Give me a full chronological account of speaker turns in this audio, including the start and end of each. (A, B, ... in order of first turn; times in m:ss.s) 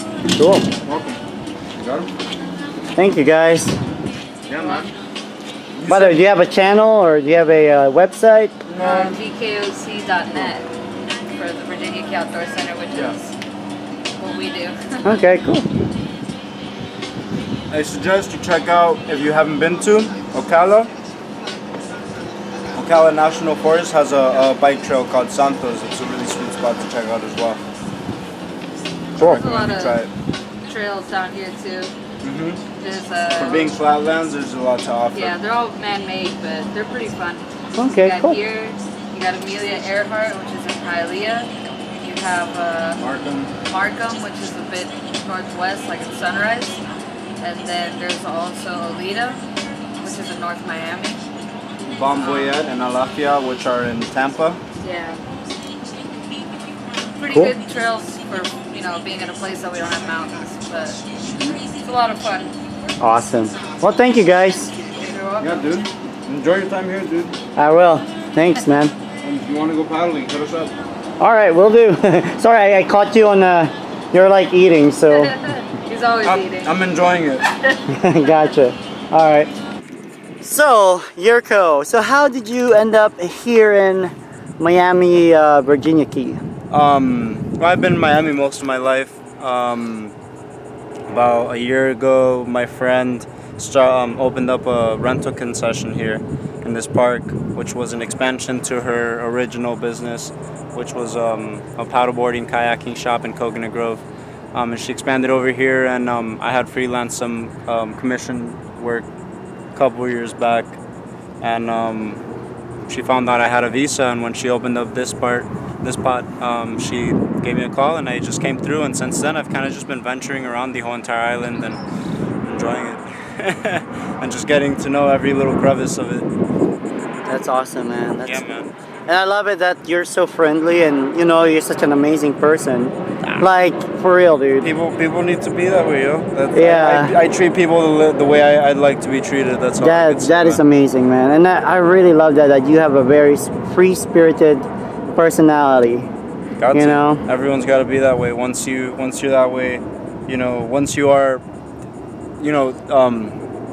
0:00.4-0:00.7 A
0:00.8-0:01.2 B
0:01.8-0:02.1 B
0:03.0-0:03.8 A
0:04.5-0:04.9 B
0:05.7-0:06.2 B
0:05.9-0:08.5 A
0:08.6-0:09.2 B
0:08.8-0:10.7 C
0:11.3-0:13.3 C
0:14.2-0:14.9 C
0:15.0-0:15.7 A
0:17.7-0:20.9 B
0:22.7-0:27.6 B
0:29.2-0:30.1 B
0:29.2-0:30.0 C
0:30.6-0:31.9 C
0:32.2-0:32.6 B
0:32.8-0:33.7 C
0:33.4-0:35.4 B
0:35.1-0:43.0 C
0:37.7-0:38.4 A
0:43.0-0:43.5 B
0:43.7-0:46.8 C
0:47.4-0:49.5 C
0:50.0-0:51.2 C
0:51.8-0:54.6 B
0:52.1-0:52.6 C
0:54.8-0:55.2 C
0:57.2-1:01.0 C
1:01.2-1:01.6 B
1:01.7-1:02.5 C
1:03.0-1:04.7 A
1:05.0-1:05.8 C
1:05.4-1:07.4 B
1:07.6-1:08.9 A
1:09.2-1:10.7 B
1:11.2-1:15.3 A
1:15.1-1:16.8 C
1:16.2-1:17.5 B
1:17.6-1:18.5 C
1:17.9-1:19.5 A
1:20.4-1:26.4 A
1:26.7-1:30.1 B
1:31.1-1:49.1 B
1:49.7-1:50.8 B
1:51.4-1:52.2 B
1:52.9-2:01.8 B
2:02.4-2:06.3 B
2:07.3-2:08.4 A
2:08.2-2:08.7 B
2:09.1-2:14.7 A
2:14.6-2:20.6 B
2:16.5-2:17.2 A
2:19.8-2:26.1 A
2:26.6-2:31.4 B
2:26.7-2:27.2 A
2:32.4-2:33.4 B